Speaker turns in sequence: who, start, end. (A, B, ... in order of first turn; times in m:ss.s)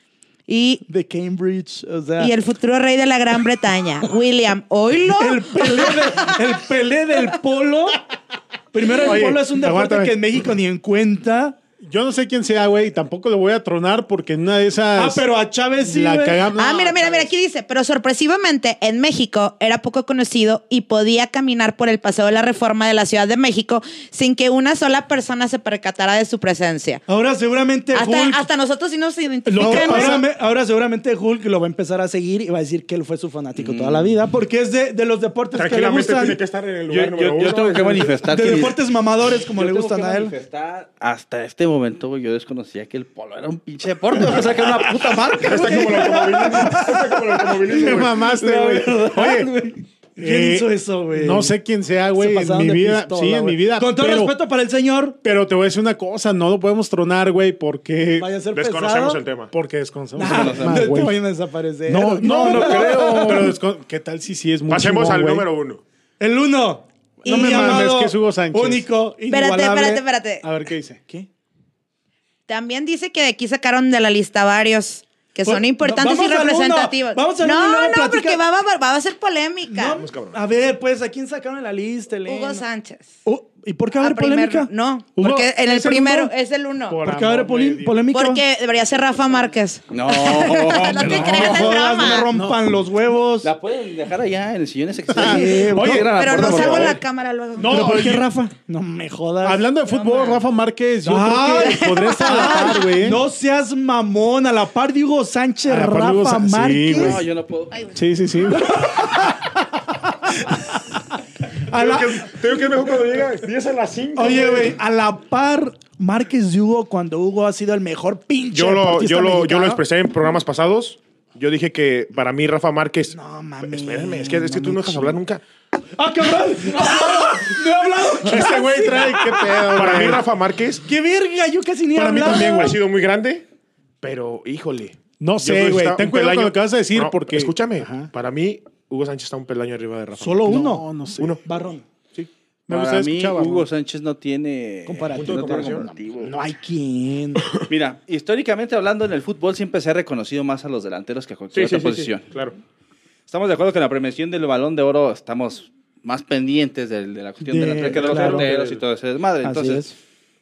0:00.5-0:00.8 A
0:00.8-0:02.3 B
0:02.2-0:06.5 A
0:05.1-0:08.0 B
0:08.7-0:11.6 B
0:09.0-0:10.2 C
0:11.8-0:15.3 C
0:15.0-0:16.4 B
0:15.8-0:17.3 C
0:16.5-0:27.0 A
0:27.1-0:28.5 B
0:27.9-0:30.2 A
0:29.4-0:30.2 C
0:29.6-0:36.4 B
0:33.6-0:34.2 D
0:35.5-0:38.1 E
0:36.9-0:38.8 D
0:38.2-0:40.4 B
0:39.3-0:46.2 D
0:44.2-0:47.7 B
0:45.4-0:48.2 E
0:47.6-0:49.5 C
0:48.4-0:49.5 B
0:48.5-0:49.7 D
0:50.2-0:51.6 B
0:50.2-0:54.3 C
0:52.1-0:55.2 B
0:55.2-0:58.3 C
0:58.2-0:59.2 B
0:58.5-0:59.5 E
0:59.5-1:01.2 C
1:00.2-1:03.6 B
1:00.2-1:00.9 D
1:01.9-1:05.5 C
1:02.5-1:03.3 D
1:04.7-1:05.8 E
1:06.2-1:10.0 B
1:07.2-1:07.9 A
1:07.2-1:08.9 C
1:09.3-1:10.4 A
1:10.4-1:11.0 C
1:12.5-1:20.0 A
1:15.4-1:18.4 B
1:19.7-1:22.6 B
1:19.9-1:20.4 E
1:22.2-1:23.2 A
1:23.2-1:24.7 B
1:24.0-1:27.0 A
1:25.2-1:26.3 C
1:26.9-1:28.0 C
1:27.0-1:28.4 B
1:28.1-1:32.3 A
1:29.9-1:31.6 D
1:31.0-1:33.5 B
1:32.3-1:32.6 C
1:33.4-1:37.0 D
1:35.1-1:37.0 C
1:35.2-1:36.9 B
1:36.1-1:37.9 A
1:37.6-1:38.2 C
1:37.6-1:39.6 B
1:39.4-1:43.2 C
1:39.9-1:40.4 A
1:41.0-1:47.2 B
1:41.7-1:42.9 A
1:45.7-1:47.2 C
1:46.9-1:47.9 D
1:47.9-1:49.0 C
1:48.5-1:51.1 B
1:51.7-1:52.4 B
1:51.7-1:54.8 E
1:54.2-1:59.8 B
1:58.5-2:05.4 E
2:03.1-2:05.2 B
2:06.0-2:10.0 B
2:08.2-2:10.2 C
2:09.7-2:10.8 E
2:10.8-2:12.7 B
2:11.9-2:12.8 C
2:12.2-2:13.4 E
2:14.0-2:21.4 E
2:15.2-2:18.1 C
2:20.2-2:20.9 B
2:20.4-2:21.4 C
2:21.4-2:21.8 B
2:22.7-2:23.7 C
2:22.7-2:26.4 D
2:24.8-2:27.5 B
2:25.1-2:25.9 E
2:27.6-2:32.2 D
2:31.5-2:32.6 E
2:33.3-2:39.9 D
2:37.4-2:38.5 B
2:37.8-2:38.8 E
2:39.4-2:39.9 B